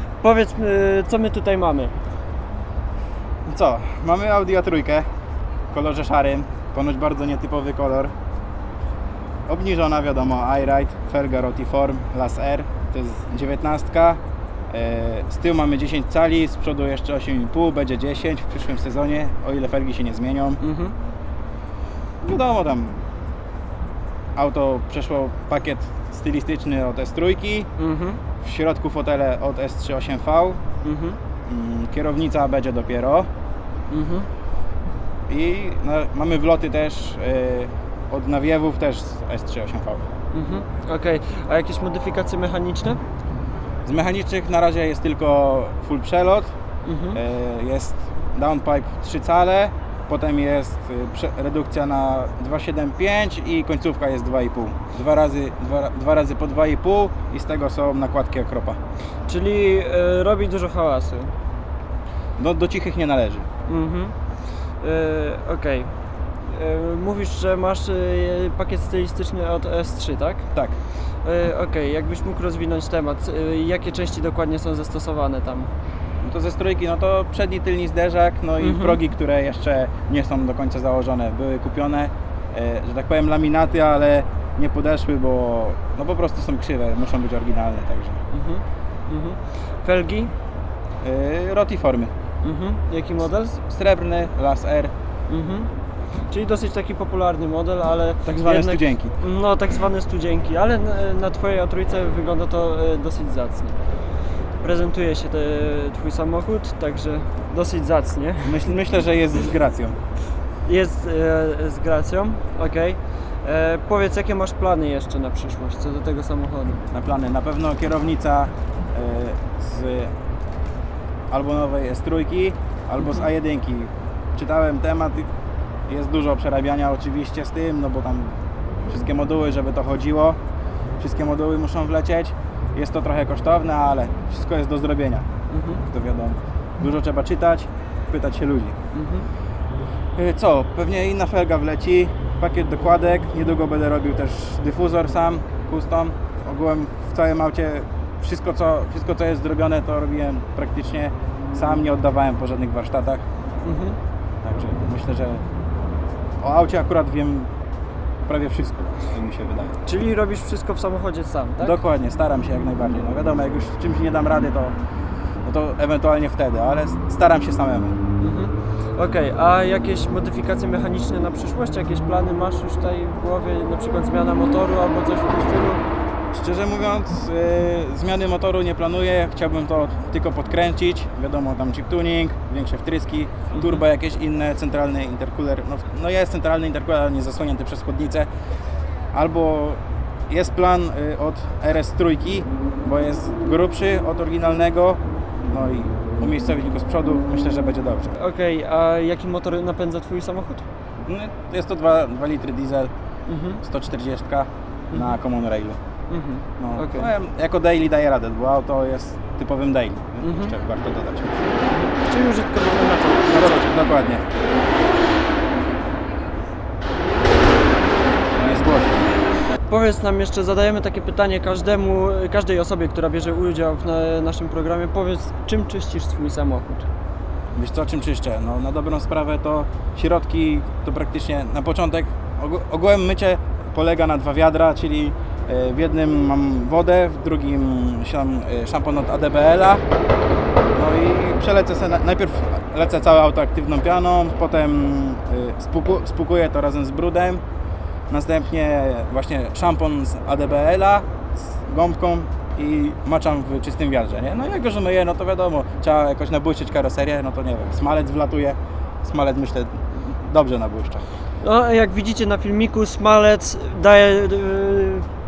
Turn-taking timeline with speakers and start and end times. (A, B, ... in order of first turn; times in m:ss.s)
0:00.2-0:02.0 A
0:03.4-0:05.0 B
0:05.7-0:08.1 B
0:09.5-0:20.6 B
0:20.6-0:21.0 A
0:22.2-0:23.0 B
0:24.4-0:27.7 B
0:27.8-0:28.2 A
0:28.4-0:30.6 B
0:30.8-0:31.2 A
0:31.4-0:33.3 B
0:33.9-0:34.3 A
0:35.3-0:40.1 B
0:40.3-0:43.0 A
0:43.8-0:46.5 B
0:46.8-0:47.2 A
0:47.1-0:58.8 B
0:59.3-1:01.3 A
1:02.4-1:03.5 B
1:03.7-1:04.1 A
1:04.8-1:05.9 A
1:06.4-1:10.5 A
1:11.2-1:15.7 A
1:16.2-1:28.2 B
1:18.6-1:19.0 A
1:28.3-1:30.3 A
1:31.0-1:32.1 B
1:32.4-1:33.6 A
1:33.5-1:34.9 B
1:35.3-1:35.7 A
1:36.3-1:43.8 A
1:38.2-1:39.1 B
1:44.6-1:48.6 A
1:48.4-1:50.0 B
1:50.6-1:56.8 A
1:56.9-2:00.1 B
2:01.3-2:05.3 B
2:03.0-2:03.3 A
2:05.9-2:10.4 B
2:11.0-2:15.3 B
2:15.5-2:15.8 A
2:15.8-2:18.8 B
2:18.9-2:19.3 A
2:20.2-2:33.2 B
2:33.6-2:34.0 A
2:34.4-2:35.4 B
2:36.4-2:37.5 B
2:38.3-2:39.8 B
2:39.8-2:41.8 A
2:41.6-2:44.7 B
2:45.4-2:48.0 B
2:48.2-2:55.8 A
2:56.3-3:08.3 B
3:03.5-3:03.8 A
3:09.1-3:18.1 B
3:18.1-3:20.6 A
3:21.0-3:22.9 B
3:23.2-3:23.6 A
3:23.6-3:25.8 B
3:26.1-3:27.1 A
3:26.6-3:31.4 B
3:30.2-3:30.5 A
3:31.6-3:33.7 A
3:33.3-3:34.2 B
3:38.3-3:39.1 B
3:39.7-3:46.9 A
3:47.5-3:59.8 B
4:00.7-4:07.4 B
4:08.1-4:21.0 B
4:21.4-4:25.1 A